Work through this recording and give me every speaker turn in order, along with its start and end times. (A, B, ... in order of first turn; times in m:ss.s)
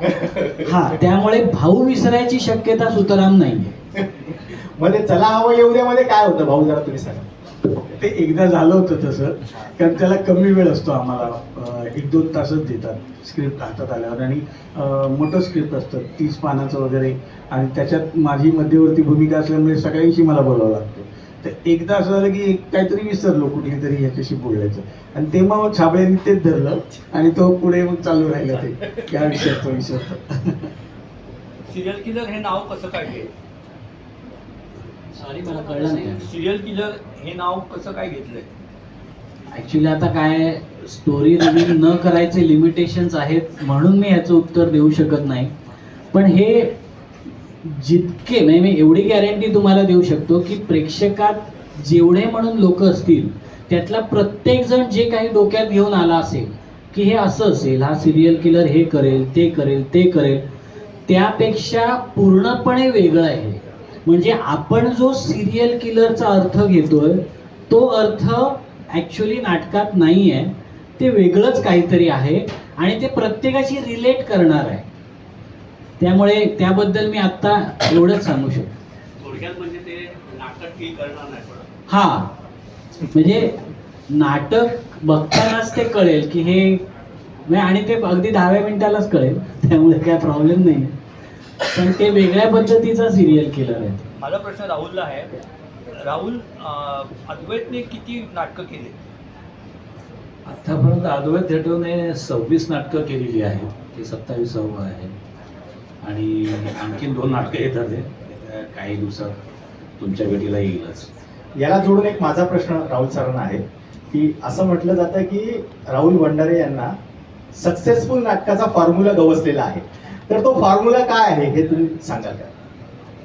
0:00.5-0:03.7 A
0:04.8-0:07.2 B
0:07.9-0:30.7 C
0:31.7-0:33.3 D
0:35.1-0:36.3 A
0:36.2-0:38.5 D
0:39.5-0:45.5 A
0:46.1-0:46.7 A
0:47.6-1:00.4 A
1:01.1-1:14.8 A
1:16.0-1:18.7 A
1:19.2-1:21.6 D
1:21.9-1:22.3 A
1:23.1-1:23.6 A
1:24.1-1:26.8 A
1:27.5-1:30.9 A
1:31.7-1:34.0 A
1:34.2-1:35.3 D
1:36.0-1:38.9 D
1:40.4-1:45.1 E
1:46.0-1:49.4 E
1:50.0-1:51.1 E
1:51.6-1:56.9 B
1:57.5-2:02.5 B